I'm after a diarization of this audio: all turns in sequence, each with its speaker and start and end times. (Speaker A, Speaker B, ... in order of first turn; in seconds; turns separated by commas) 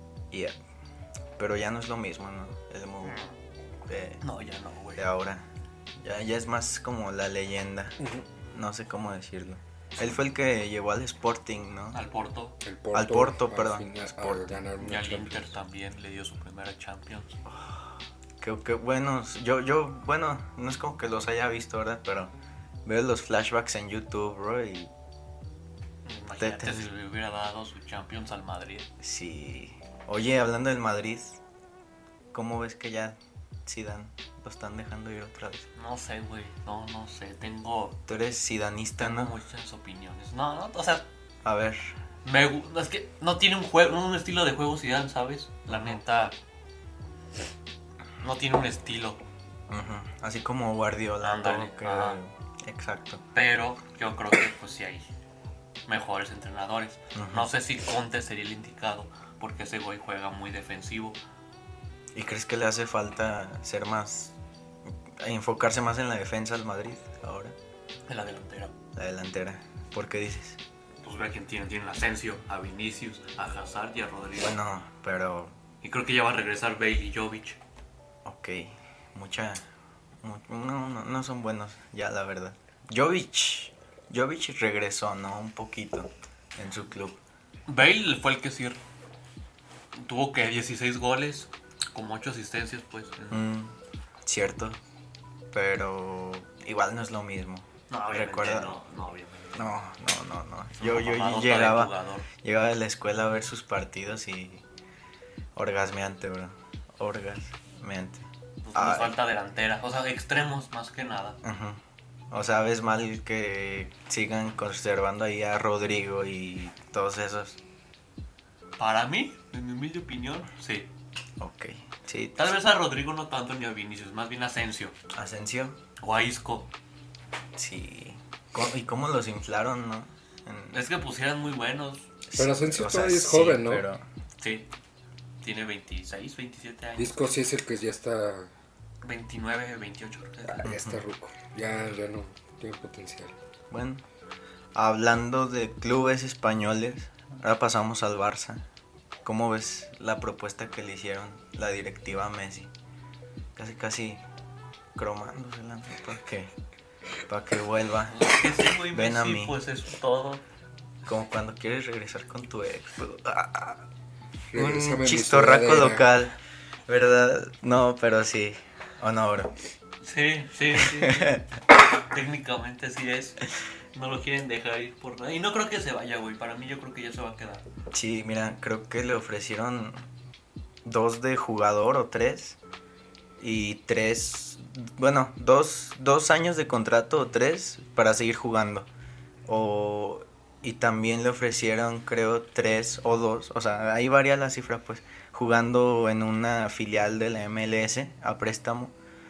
Speaker A: 0.3-0.6, Speaker A: 1.4-3.2, Speaker B: 3.0-3.4, Speaker A: 3.9-4.2, Speaker B: 4.2-5.0, Speaker A: 5.0-5.5, Speaker A: 6.0-8.0, Speaker C: 8.0-8.2, Speaker A: 8.5-12.0, Speaker B: 11.9-12.6, Speaker C: 12.6-15.5, Speaker A: 12.9-14.7, Speaker B: 14.8-17.4, Speaker A: 17.4-22.3, Speaker A: 22.8-24.9, Speaker B: 26.0-28.9, Speaker A: 26.4-26.9, Speaker A: 29.0-31.4, Speaker A: 32.3-35.7, Speaker B: 35.7-38.0, Speaker A: 38.1-39.3, Speaker B: 39.0-41.1, Speaker A: 41.4-42.0, Speaker B: 42.2-46.4, Speaker A: 45.7-46.0, Speaker B: 48.2-49.2, Speaker A: 49.7-53.2, Speaker B: 51.2-52.2, Speaker B: 53.3-55.1, Speaker B: 55.9-61.2, Speaker A: 57.1-57.5, Speaker A: 62.1-64.3, Speaker A: 65.1-67.5, Speaker B: 68.1-68.7, Speaker A: 68.9-70.6, Speaker B: 71.0-74.6, Speaker A: 74.4-75.5, Speaker B: 75.8-77.6, Speaker A: 78.2-79.7, Speaker A: 80.2-87.2, Speaker B: 87.7-88.8, Speaker B: 89.9-93.5, Speaker A: 93.3-94.8, Speaker A: 95.5-98.8, Speaker B: 97.9-99.7, Speaker A: 99.5-104.6, Speaker B: 100.8-102.3, Speaker A: 105.5-109.2, Speaker B: 108.6-111.4, Speaker A: 111.4-117.6, Speaker B: 118.8-120.9, Speaker A: 121.4-122.5, Speaker B: 122.3-125.0, Speaker A: 125.1-125.8, Speaker B: 126.0-126.7, Speaker A: 127.5-130.8, Speaker B: 130.7-132.1, Speaker A: 132.2-134.1, Speaker C: 132.3-133.8, Speaker B: 134.4-134.7, Speaker B: 135.4-137.2, Speaker C: 137.0-138.5, Speaker B: 139.0-140.6, Speaker C: 140.6-143.3, Speaker A: 140.6-141.0, Speaker A: 143.7-144.0, Speaker A: 144.7-148.6, Speaker A: 149.2-152.7, Speaker A: 153.6-154.2, Speaker A: 154.9-156.5, Speaker A: 157.3-159.6, Speaker B: 158.1-160.4, Speaker A: 161.1-163.8, Speaker C: 164.5-166.1, Speaker A: 164.5-169.5, Speaker B: 170.0-171.4, Speaker A: 170.7-171.5, Speaker B: 172.1-173.4, Speaker B: 173.9-177.6, Speaker A: 177.9-180.0, Speaker A: 180.8-182.6, Speaker A: 183.4-188.9, Speaker A: 189.4-198.9